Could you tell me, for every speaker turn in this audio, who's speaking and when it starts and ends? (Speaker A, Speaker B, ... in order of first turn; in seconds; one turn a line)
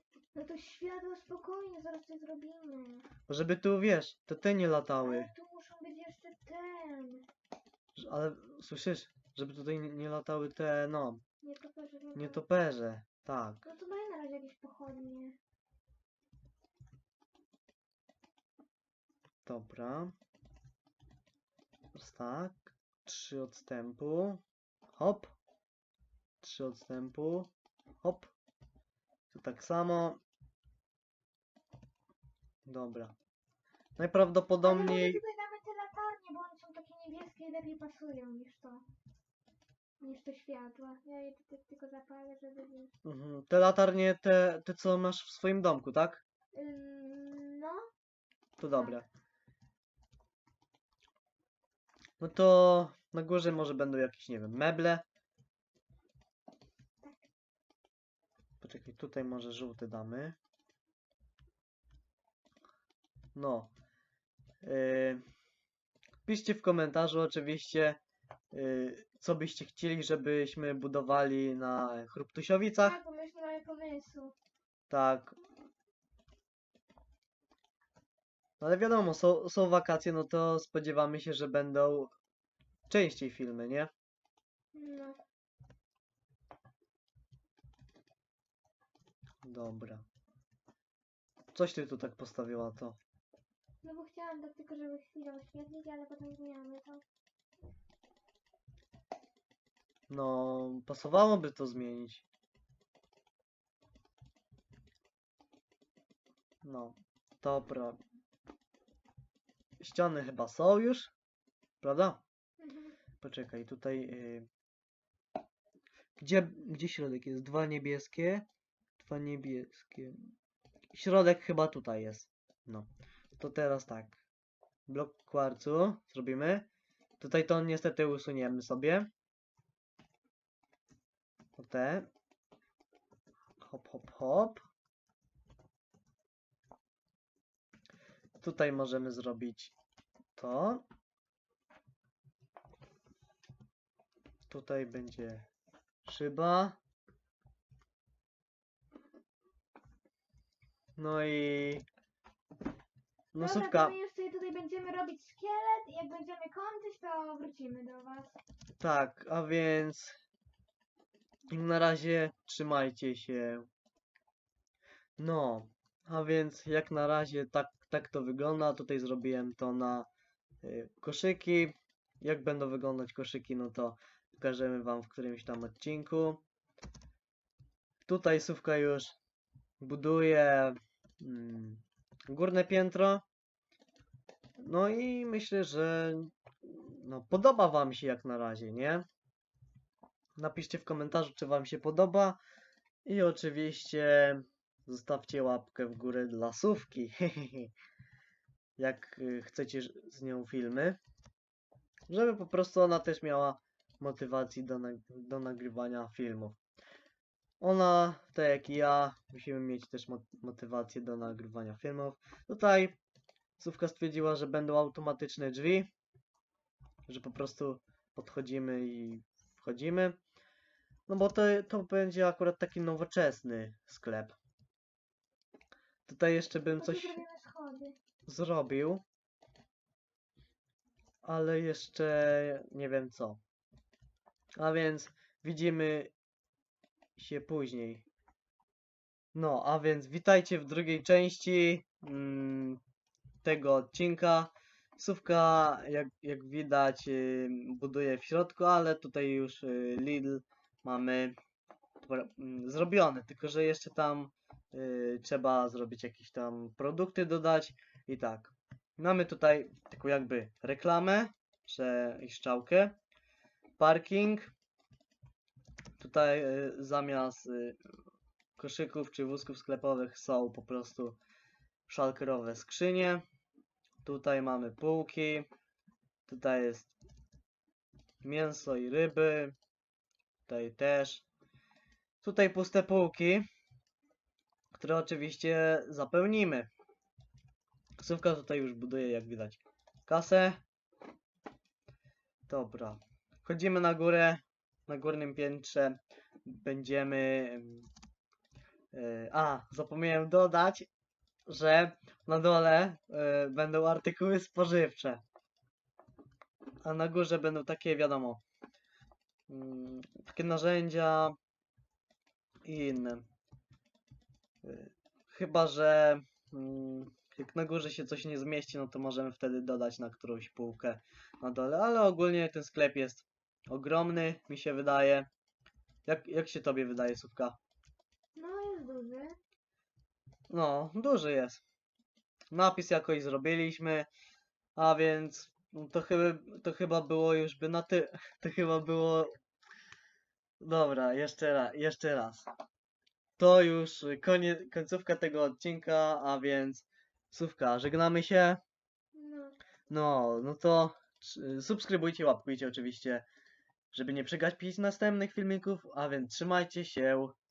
Speaker A: 0.3-3.1
Speaker B: 3.3-5.3
Speaker A: 5.0-7.2
Speaker B: 8.0-11.2
Speaker A: 11.4-12.4
Speaker B: 12.2-13.7
Speaker A: 13.6-15.4
Speaker B: 19.5-20.1
Speaker B: 21.9-24.4
Speaker B: 24.9-25.3
Speaker B: 26.4-27.5
Speaker B: 28.0-28.3
Speaker B: 29.3-30.2
Speaker B: 32.7-33.1
Speaker B: 34.0-35.2
Speaker A: 34.6-38.8
Speaker A: 40.0-42.9
Speaker B: 43.0-46.2
Speaker A: 46.5-47.8
Speaker B: 48.6-49.1
Speaker B: 52.2-55.0
Speaker B: 58.6-60.4
Speaker B: 63.3-63.7
Speaker B: 64.6-65.2
Speaker B: 66.3-68.0
Speaker B: 68.5-73.0
Speaker A: 72.8-74.3
Speaker B: 74.9-75.4
Speaker B: 78.6-82.1
Speaker B: 82.9-83.9
Speaker A: 84.7-85.2
Speaker B: 89.4-90.0
Speaker B: 91.5-93.0
Speaker A: 93.8-97.0
Speaker B: 100.1-102.2
Speaker B: 106.6-108.0
Speaker B: 109.8-111.1
Speaker B: 111.8-112.2
Speaker A: 112.6-113.0
Speaker B: 113.2-114.5
Speaker B: 116.2-118.5
Speaker B: 119.0-120.2
Speaker B: 120.9-124.2
Speaker B: 124.9-126.7
Speaker B: 127.2-129.1
Speaker B: 131.6-132.1
Speaker B: 133.6-134.6
Speaker B: 138.4-139.7
Speaker B: 140.3-140.8
Speaker B: 144.5-145.5
Speaker B: 146.0-146.8
Speaker B: 151.0-151.8
Speaker B: 153.3-153.9
Speaker A: 153.4-158.4
Speaker B: 158.8-160.2
Speaker B: 161.5-163.7
Speaker B: 165.2-170.1
Speaker B: 170.6-176.4
Speaker B: 178.1-179.1
Speaker B: 179.8-183.2
Speaker B: 184.6-189.0
Speaker B: 190.4-192.4
Speaker B: 193.0-197.7
Speaker B: 198.8-201.0
Speaker B: 202.1-206.6
Speaker B: 207.6-213.0
Speaker B: 213.6-215.9
Speaker B: 217.1-220.2
Speaker B: 221.1-224.3
Speaker B: 226.1-227.2
Speaker A: 226.7-228.0
Speaker B: 228.3-229.0
Speaker B: 231.2-233.4
Speaker B: 234.6-236.1
Speaker B: 237.2-238.0
Speaker B: 239.3-242.8
Speaker B: 243.4-251.3
Speaker B: 252.0-263.0
Speaker B: 263.8-264.5
Speaker B: 266.0-267.8
Speaker B: 268.6-271.2
Speaker B: 271.9-273.2
Speaker B: 274.0-275.5
Speaker B: 276.3-276.9
Speaker B: 278.2-279.5
Speaker B: 280.5-281.2
Speaker B: 282.2-283.5
Speaker B: 284.7-286.7
Speaker B: 288.0-290.6
Speaker B: 292.5-297.9
Speaker B: 298.9-300.9
Speaker B: 301.5-305.2
Speaker B: 306.8-308.4
Speaker B: 309.5-311.4
Speaker B: 312.6-313.2
Speaker B: 314.6-325.3
Speaker B: 326.1-327.6
Speaker A: 328.4-329.4
Speaker B: 330.5-331.6
Speaker B: 332.5-334.1
Speaker B: 334.8-339.3
Speaker B: 340.6-342.5
Speaker B: 343.4-348.6
Speaker A: 349.1-349.6
Speaker B: 349.9-353.2
Speaker B: 353.9-357.4